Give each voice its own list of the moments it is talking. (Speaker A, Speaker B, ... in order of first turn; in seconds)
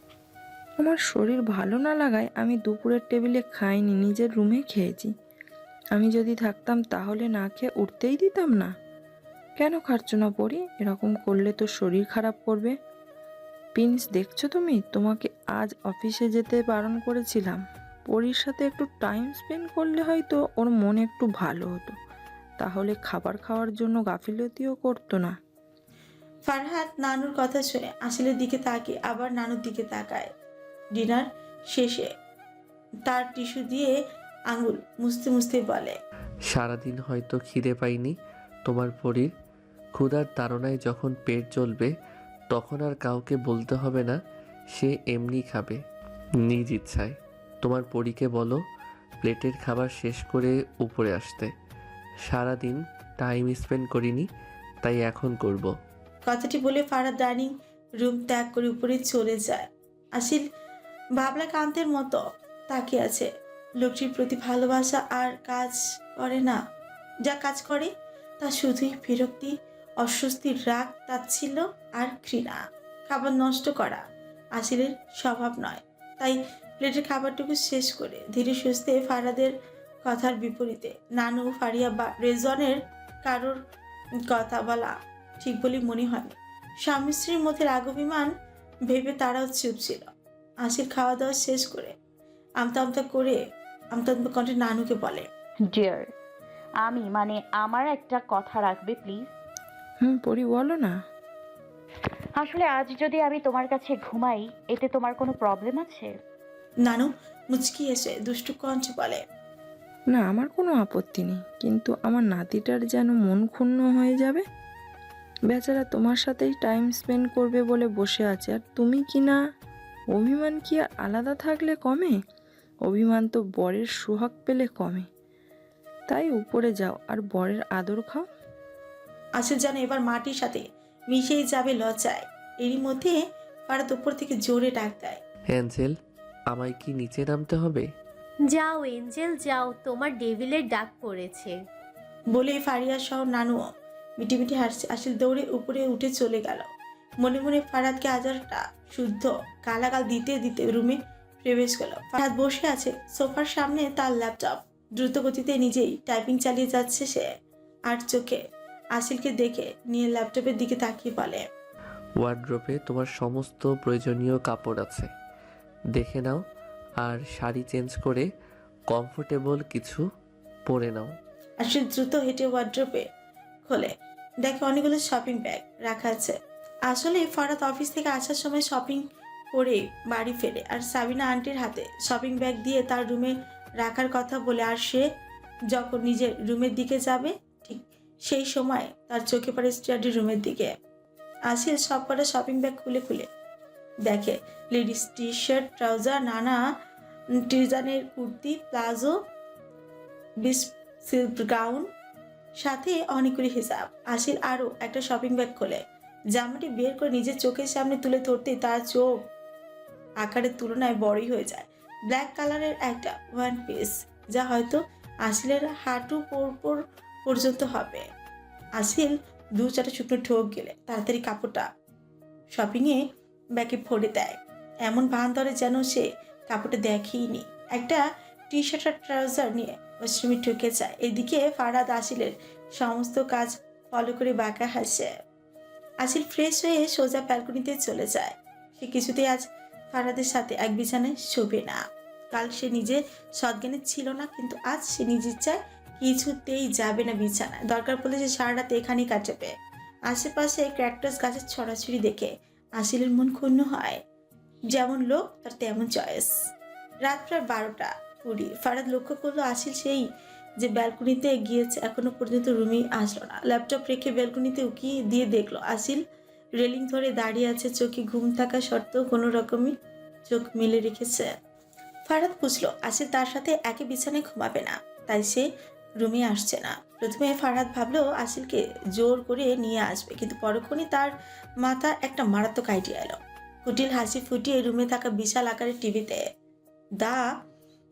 Speaker A: 0.8-5.1, 6.0-8.7, 9.6-12.8, 13.7-22.0, 22.6-25.4, 100.0-100.9, 110.1-114.4, 115.5-119.4, 120.1-122.1, 122.9-125.1, 126.1-128.2
Speaker B: 26.5-30.3, 30.9-32.1, 33.1-33.9, 34.5-36.0, 56.3-60.4, 61.2-63.3, 63.8-66.6, 67.2-74.0, 74.6-79.5, 80.0-83.6, 84.3-88.3, 88.9-90.1, 90.6-91.9, 92.6-93.4, 93.9-95.3, 106.8-109.2, 129.4-133.2, 133.7-135.2, 142.3-143.6, 144.2-146.7, 147.2-157.3, 157.9-158.4, 158.9-161.4, 171.6-173.1, 173.7-185.1, 185.7-190.7, 191.5-193.3, 194.0-196.6, 197.4-199.2, 200.4-201.9, 202.6-205.8, 206.3-209.2, 210.2-218.1, 218.8-221.7, 222.5-235.1, 236.0-249.5, 250.1-254.0, 254.7-256.5, 257.0-260.0, 260.6-266.0, 266.6-269.7, 270.3-271.3, 272.1-275.5, 276.0-281.1, 281.6-286.2, 287.0-287.3
Speaker C: 36.5-39.3, 39.9-41.9, 42.5-44.2, 44.7-45.8, 46.4-48.6, 49.2-51.5, 52.2-54.3, 54.8-55.7, 135.5-135.9, 136.5-137.8, 162.2-165.1, 165.9-166.4, 167.0-168.3, 168.9-170.1, 170.7-171.2
Speaker D: 95.7-96.1, 96.8-99.3, 102.4-106.1
Speaker E: 138.5-141.5